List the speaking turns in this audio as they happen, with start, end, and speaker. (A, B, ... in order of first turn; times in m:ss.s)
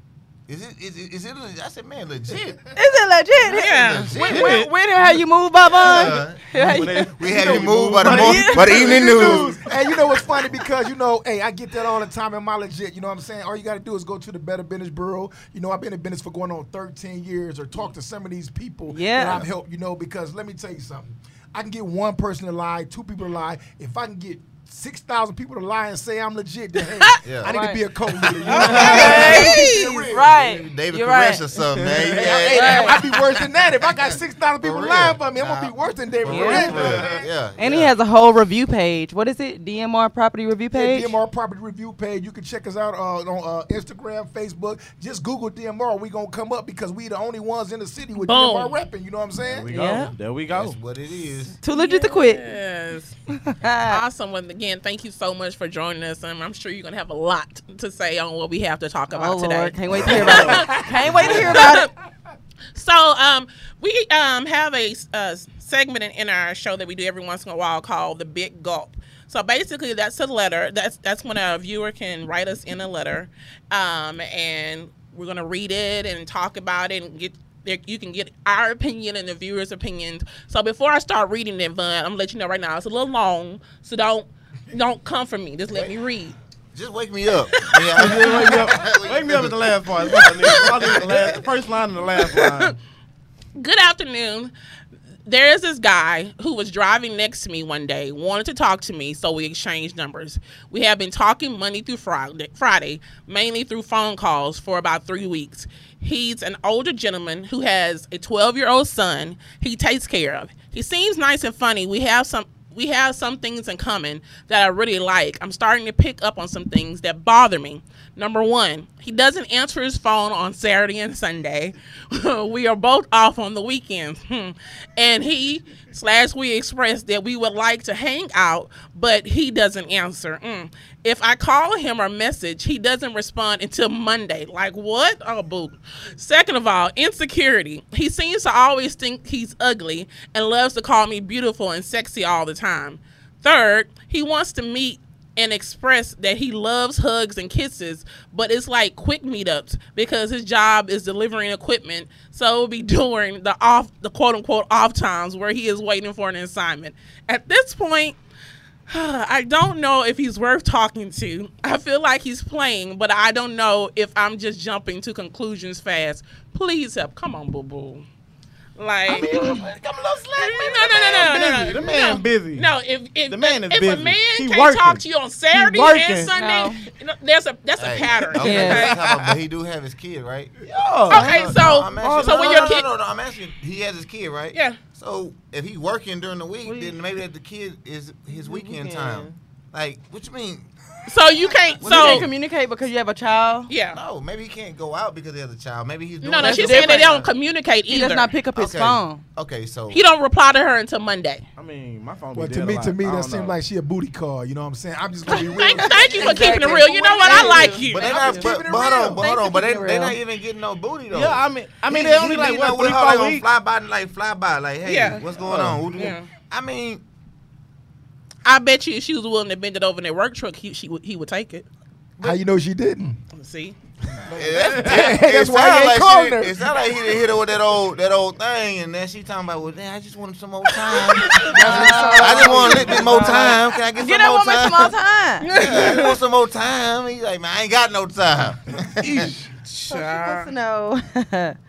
0:00.5-0:02.6 A
0:02.7-0:07.1 B
0:03.5-0:04.3 C
0:03.5-0:04.6 A
0:04.2-0:05.2 D
0:05.7-0:09.6 A
0:06.6-0:09.6 D
0:06.7-0:30.0 E
0:08.1-0:08.8 B
0:18.9-0:19.4 B
0:27.2-0:27.5 A
0:27.4-0:27.8 B
0:28.4-0:30.0 C
0:28.5-0:31.6 B
0:28.5-0:37.9 A
0:28.7-0:29.0 D
0:31.8-0:32.4 D
0:32.1-0:37.2 E
0:32.5-0:32.9 B
0:32.5-0:33.0 C
0:36.2-0:36.8 B
0:36.7-0:37.0 D
0:37.6-0:41.1 B
0:40.7-0:49.7 E
0:48.2-0:48.8 C
0:49.5-0:50.8 D
0:49.7-0:50.1 B
0:50.5-0:51.6 A
0:51.6-0:52.4 B
0:51.7-0:53.1 C
0:53.4-0:54.0 B
0:53.9-1:01.9 C
0:59.1-1:01.9 B
1:00.0-1:00.4 A
1:01.0-1:01.6 A
1:02.7-1:26.4 C
1:26.7-1:31.4 A
1:28.0-1:32.8 D
1:32.2-1:32.7 C
1:33.6-1:34.5 C
1:35.2-2:38.2 C
2:38.9-2:48.0 C
2:48.8-2:49.6 C
2:49.1-2:52.1 A
2:50.4-2:59.0 C
2:51.2-2:52.7 D
2:53.3-2:56.3 D
2:56.3-2:56.8 B
2:57.8-3:10.7 A
2:58.4-2:58.9 B
2:58.5-2:59.3 D
3:00.6-3:02.8 D
3:01.1-3:02.9 C
3:06.6-3:06.9 D
3:08.3-3:09.4 D
3:11.1-3:12.3 C
3:11.8-3:12.3 A
3:11.8-3:13.7 B
3:13.7-3:14.0 C
3:13.9-3:17.3 A
3:16.2-3:18.3 C
3:16.4-3:17.2 B
3:17.9-3:19.2 B
3:18.5-3:20.0 A
3:19.9-3:21.4 C
3:21.6-3:23.6 D
3:22.3-3:29.2 E
3:25.3-3:28.4 C
3:25.3-3:28.5 B
3:27.9-3:37.0 A
3:29.1-3:30.2 B
3:31.1-3:33.4 D
3:34.8-3:35.2 C
3:35.3-3:36.0 D
3:35.9-3:36.3 C
3:38.4-3:41.6 C
3:42.2-3:43.2 E
3:43.3-3:43.7 C
3:44.3-3:45.1 D
3:44.3-3:54.9 A
3:44.6-3:46.9 E
3:50.7-3:51.5 C
3:51.5-3:53.3 E
3:51.5-3:55.5 B
3:52.4-3:53.5 D
3:55.4-3:56.2 C
3:55.5-3:59.3 A
3:59.0-3:59.5 E
3:59.7-4:00.5 C
3:59.9-4:01.6 B